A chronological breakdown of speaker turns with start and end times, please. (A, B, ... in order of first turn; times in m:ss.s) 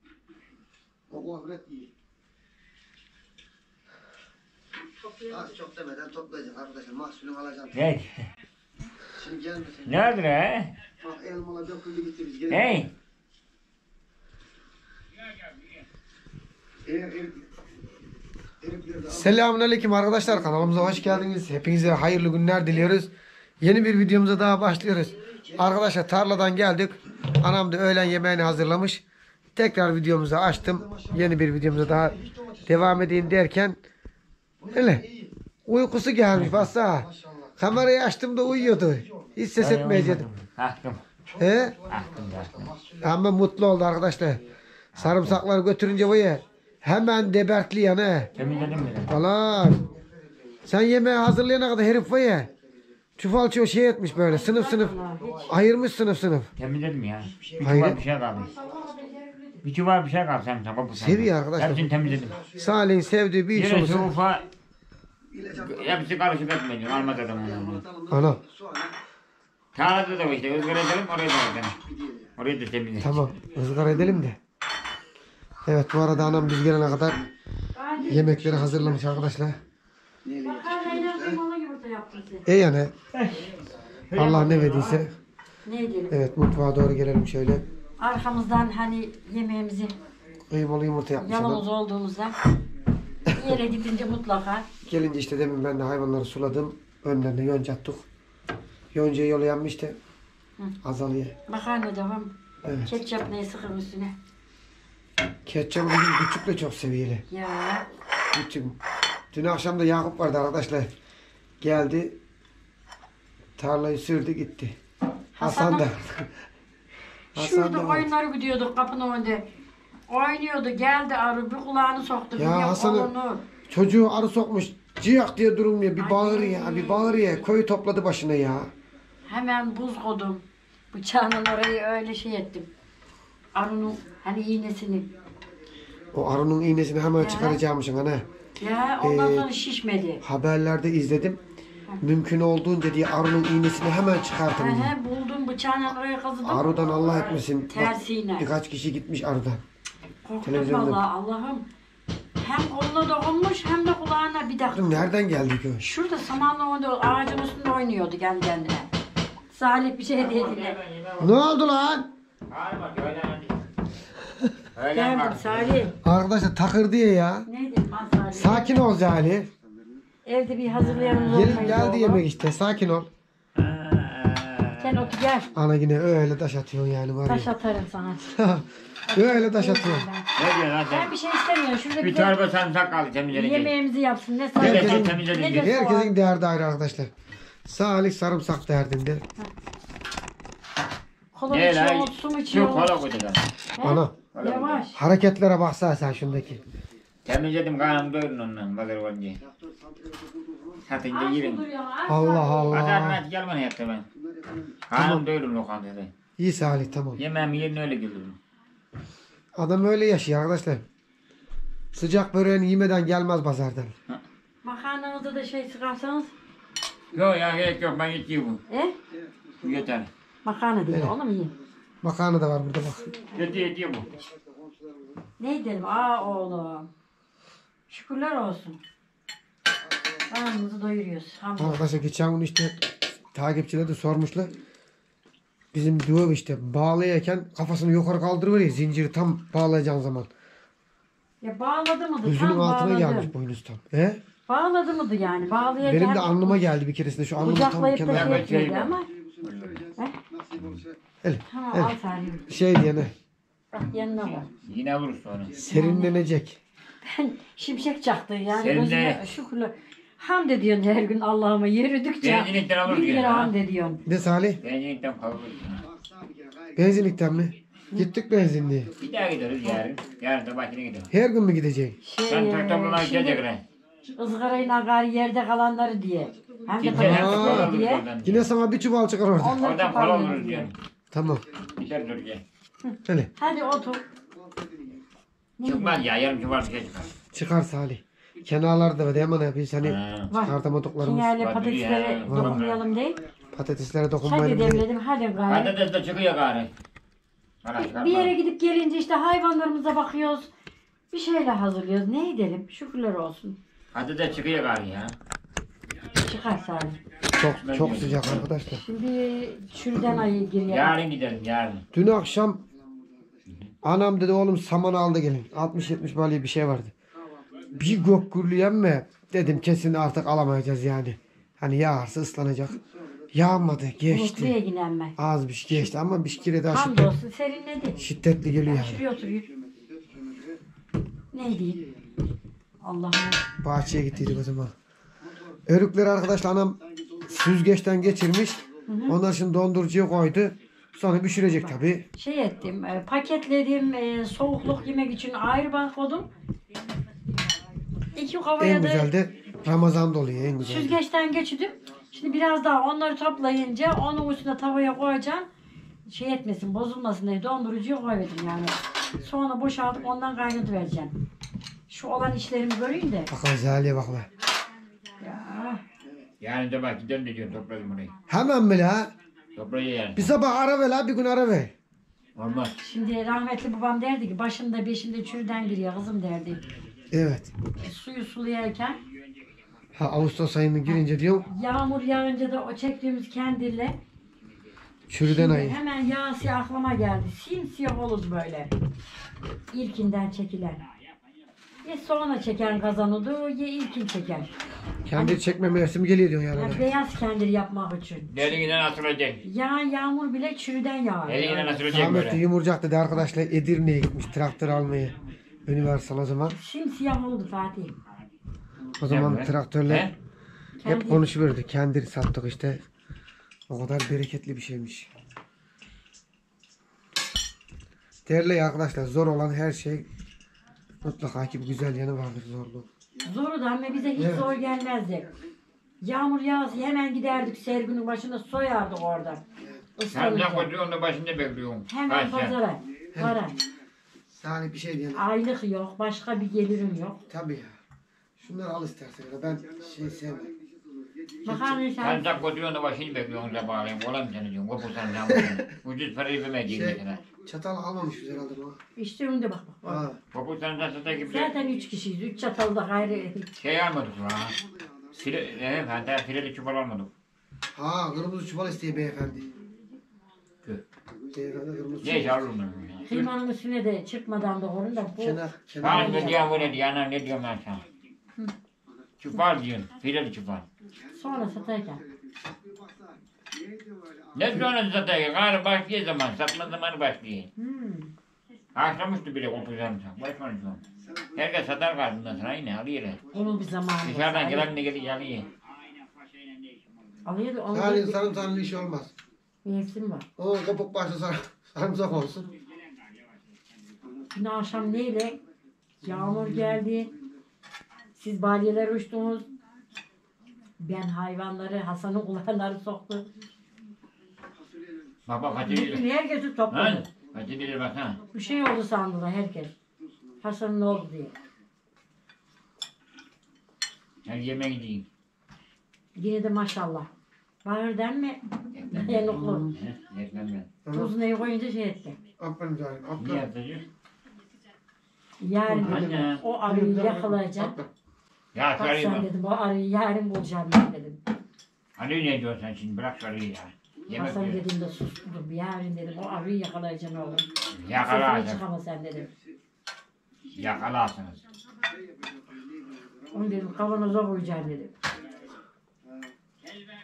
0:01.1-0:01.9 A
0:05.2-0:07.8 A
0:07.7-0:08.3 B
0:09.2-0:10.0 A
0:09.8-0:10.7 B
0:11.0-0:12.7 A
0:12.5-0:12.9 B
0:16.8-0:17.4 A
0:18.6-0:19.3 A
0:19.1-0:29.0 C
0:25.5-0:25.8 A
0:29.6-0:33.8 C
0:30.7-0:31.3 A
0:31.8-0:33.2 A
0:34.6-0:35.3 A
0:34.7-0:35.0 C
0:35.6-0:40.2 C
0:36.3-0:36.7 B
0:37.0-0:37.5 A
0:38.8-0:39.3 A
0:39.6-0:41.0 B
0:41.3-0:43.2 A
0:41.4-0:41.8 C
0:41.9-0:42.7 B
0:43.0-0:44.4 C
0:44.9-0:45.4 B
0:44.9-0:48.3 C
0:48.3-0:49.1 B
0:48.4-0:48.8 D
0:49.0-0:49.8 C
0:49.2-0:50.6 A
0:50.6-0:52.5 C
0:52.6-0:52.8 A
0:53.2-0:56.5 C
0:54.2-0:55.5 D
0:55.0-0:55.4 A
0:56.6-0:58.5 B
0:57.6-0:58.0 C
0:58.3-0:59.6 D
0:59.6-1:02.4 B
1:00.9-1:04.1 C
1:02.1-1:02.7 A
1:03.5-1:04.4 B
1:05.3-1:06.1 A
1:05.5-1:07.8 B
1:06.9-1:08.9 A
1:08.1-1:08.4 C
1:09.7-1:11.8 B
1:11.8-1:12.3 A
1:12.4-1:13.3 B
1:13.0-1:14.4 C
1:15.6-1:17.2 C
1:17.7-1:19.3 D
1:18.0-1:19.6 C
1:20.2-1:21.2 A
1:20.4-1:22.5 D
1:22.4-1:22.9 C
1:23.2-1:25.0 B
1:24.1-1:25.1 C
1:25.6-1:26.1 D
1:26.1-1:27.6 C
1:28.0-1:29.9 D
1:30.5-1:31.6 C
1:31.2-1:32.3 D
1:33.3-1:33.6 C
1:33.3-1:34.7 D
1:34.8-1:38.0 C
1:38.9-1:40.0 C
1:40.8-1:41.3 C
1:41.5-1:44.1 D
1:42.6-1:42.9 C
1:45.4-1:47.2 C
1:47.3-1:47.8 D
1:48.3-1:48.8 C
1:49.3-1:50.9 C
1:51.6-1:52.2 C
1:53.6-1:54.8 C
1:55.3-1:55.9 D
1:55.4-1:56.3 C
1:57.3-1:59.5 D
1:57.3-1:58.1 C
2:00.1-2:03.4 D
2:02.4-2:03.1 C
2:03.7-2:08.7 C
2:06.0-2:07.2 D
2:09.3-2:12.7 D
2:13.5-2:15.1 D
2:16.1-2:18.2 C
2:17.2-2:17.6 D
2:18.6-2:20.2 D
2:19.0-2:19.5 C
2:20.2-2:21.4 C
2:22.0-2:24.9 C
2:24.5-2:26.8 D
2:26.4-2:29.6 C
2:27.0-2:27.3 B
2:27.7-2:28.5 D
2:30.2-2:31.6 D
2:30.4-2:31.0 C
2:32.4-2:34.9 D
2:34.7-2:35.8 C
2:35.8-2:38.9 D
2:39.5-2:40.8 D
2:40.2-2:41.5 B
2:41.2-2:42.1 C
2:42.5-2:43.7 B
2:44.8-2:45.9 B
2:44.9-2:46.0 D
2:46.0-2:47.5 C
2:47.4-2:48.8 D
2:48.3-2:49.5 C
2:50.2-2:52.2 D
2:50.8-2:51.6 B
2:51.3-2:53.1 C
2:53.5-2:55.1 B
2:54.8-2:55.5 D
2:55.5-2:57.5 C
2:57.2-2:58.4 D
2:58.3-3:00.0 C
2:59.1-3:00.3 D
3:00.3-3:01.1 B
3:00.9-3:02.4 D
3:02.0-3:03.7 B
3:03.3-3:06.1 D
3:04.6-3:05.7 B
3:04.6-3:07.1 C
3:07.6-3:09.2 C
3:11.3-3:13.0 D
3:11.5-3:13.6 B
3:13.8-3:15.0 D
3:13.8-3:14.2 C
3:14.3-3:14.9 B
3:14.9-3:16.6 C
3:17.2-3:19.4 B
3:19.4-3:20.8 A
3:20.8-3:21.6 B
3:21.1-3:22.9 D
3:22.1-3:23.2 C
3:22.7-3:24.0 B
3:24.1-3:24.8 A
3:24.9-3:26.1 B
3:24.9-3:25.2 C
3:26.4-3:27.2 C
3:27.2-3:28.4 B
3:29.6-3:30.8 C
3:31.9-3:33.9 C
3:34.6-3:36.3 D
3:37.1-3:38.6 B
3:38.7-3:39.0 D
3:39.1-3:39.7 A
3:39.6-3:40.1 B
3:40.4-3:41.5 D
3:42.0-3:43.1 C
3:43.3-3:44.1 B
3:44.1-3:45.2 A
3:45.4-3:46.9 D
3:47.9-3:48.8 D
3:50.3-3:51.8 D
3:51.6-3:52.8 C
3:53.3-3:54.5 C
3:55.7-4:00.3 C
4:01.4-4:03.3 D
4:02.2-4:04.2 C
4:04.5-4:06.6 D
4:05.8-4:08.5 C
4:07.4-4:09.1 D
4:08.1-4:09.0 B
4:09.1-4:11.0 A
4:09.5-4:09.8 B
4:11.2-4:11.9 C
4:11.5-4:12.4 D
4:12.4-4:13.1 C
4:13.7-4:14.5 D
4:14.6-4:15.6 B
4:15.6-4:16.6 C
4:15.7-4:16.2 D
4:17.0-4:24.0 D
4:18.5-4:19.2 B
4:22.2-4:23.5 B
4:24.0-4:24.6 C
4:24.6-4:25.9 B
4:25.9-4:26.8 A
4:26.8-4:28.9 C
4:29.0-4:31.1 B
4:31.1-4:32.0 C
4:32.0-4:33.4 D
4:32.3-4:33.6 B
4:34.1-4:38.0 D
4:36.8-4:38.5 B
4:36.9-4:39.6 C
4:39.4-4:40.7 D
4:39.5-4:40.7 B
4:41.1-4:41.4 C
4:41.2-4:41.8 A
4:41.7-4:42.4 B
4:42.8-4:44.0 D
4:43.0-4:43.3 C
4:44.1-4:45.0 A
4:45.6-4:46.0 D
4:45.6-4:47.2 B
4:47.3-4:51.3 C
4:49.8-4:50.3 B
4:50.3-4:53.2 D
4:51.4-4:52.8 B
4:52.3-4:52.6 C
4:53.5-4:54.8 C
4:54.2-4:55.7 D
4:55.5-4:56.7 B
4:57.6-4:58.3 B
4:57.8-5:00.5 D
5:01.1-5:03.6 D
5:03.9-5:05.2 B
5:06.2-5:07.0 D
5:07.3-5:08.8 C
5:07.6-5:08.5 B
5:08.7-5:11.0 D
5:10.7-5:11.8 B
5:11.9-5:12.6 C
5:12.6-5:13.4 A
5:13.8-5:16.9 C
5:17.2-5:17.8 A
5:17.7-5:22.8 C
5:23.3-5:24.6 C
5:24.1-5:25.1 D
5:25.2-5:27.1 C
5:26.7-5:28.0 D
5:28.0-5:29.1 C
5:28.6-5:29.4 D
5:29.5-5:30.6 A
5:31.3-5:31.8 D
5:32.8-5:33.5 D
5:33.6-5:34.7 C
5:35.7-5:42.0 C
5:38.9-5:39.2 D
5:41.6-5:46.3 D
5:48.1-5:49.1 D
5:48.6-5:51.0 C
5:50.6-5:55.5 D
5:56.0-6:01.1 D
6:01.9-6:03.3 D
6:03.3-6:04.3 C
6:05.2-6:05.8 D
6:06.4-6:08.1 B
6:08.3-6:09.1 C
6:09.6-6:10.3 B
6:10.1-6:11.7 C
6:12.4-6:12.7 B
6:12.8-6:16.6 D
6:17.1-6:17.5 C
6:17.8-6:19.0 D
6:19.9-6:21.4 C
6:20.8-6:24.0 D
6:25.1-6:25.8 C
6:25.2-6:28.7 D
6:29.7-6:30.8 D
6:31.8-6:34.5 D
6:35.0-6:36.8 C
6:35.1-6:35.4 D
6:36.5-6:38.4 D
6:38.3-6:39.4 B
6:39.4-6:41.8 D
6:41.3-6:42.4 B
6:41.9-6:46.5 C
6:46.5-6:48.0 D
6:49.0-6:50.1 C
6:49.0-6:50.1 B
6:50.8-6:51.3 D
6:50.8-6:52.8 C
6:53.7-6:55.1 C
6:58.2-7:00.0 C
7:01.0-7:02.9 C
7:03.2-7:05.3 D
7:04.1-7:04.5 C
7:06.0-7:09.4 D
7:10.0-7:10.7 D
7:10.1-7:12.6 B
7:11.9-7:13.6 D
7:13.1-7:13.4 C
7:14.3-7:15.3 C
7:15.1-7:17.2 D
7:17.3-7:17.7 C
7:18.4-7:20.5 C
7:19.5-7:21.8 A
7:21.4-7:22.3 D
7:21.4-7:21.8 C
7:22.0-7:27.2 B
7:25.2-7:25.6 C
7:26.7-7:28.8 C
7:28.0-7:28.6 A
7:29.0-7:29.9 D
7:29.8-7:30.2 C
7:30.3-7:31.5 B
7:31.2-7:33.5 D
7:33.6-7:34.6 B
7:34.6-7:35.0 A
7:35.1-7:37.1 B
7:37.7-7:39.5 C
7:41.1-7:42.4 A
7:41.3-7:42.4 C
7:42.0-7:43.1 B
7:43.0-7:46.7 D
7:45.2-7:46.5 C
7:45.8-7:47.8 B
7:49.2-7:50.6 B
7:51.1-7:54.7 A
7:51.1-7:52.0 D
7:54.3-7:57.5 B
7:57.6-7:58.1 D
7:58.7-8:00.8 B
8:01.0-8:01.4 A
8:01.3-8:03.2 B
8:03.3-8:04.7 D
8:04.0-8:05.5 B
8:07.2-8:08.2 D
8:07.7-8:09.1 C
8:09.6-8:10.2 D
8:10.4-8:12.5 C
8:14.3-8:15.4 D
8:16.0-8:17.1 D
8:16.0-8:16.8 C
8:18.2-8:19.5 D
8:20.8-8:23.3 D
8:24.5-8:25.1 A
8:25.3-8:26.0 B
8:25.6-8:27.0 D
8:26.7-8:28.2 B
8:28.3-8:29.7 D
8:30.4-8:31.3 D
8:34.2-8:35.0 B
8:36.2-8:37.1 D
8:37.6-8:39.7 D
8:38.7-8:40.7 B
8:39.3-8:39.7 C
8:40.8-8:41.1 C
8:40.9-8:42.2 D
8:42.4-8:43.5 C
8:43.2-8:43.9 B
8:45.4-8:47.7 D
8:45.6-8:47.9 C
8:45.8-8:46.4 B
8:48.5-8:49.3 B
8:48.8-8:51.2 D
8:52.0-8:54.6 B
8:54.1-8:59.3 D
8:57.7-8:58.6 B
8:59.3-8:59.5 A
9:00.5-9:01.4 B
9:01.8-9:03.8 A
9:03.3-9:04.9 D
9:06.0-9:06.3 A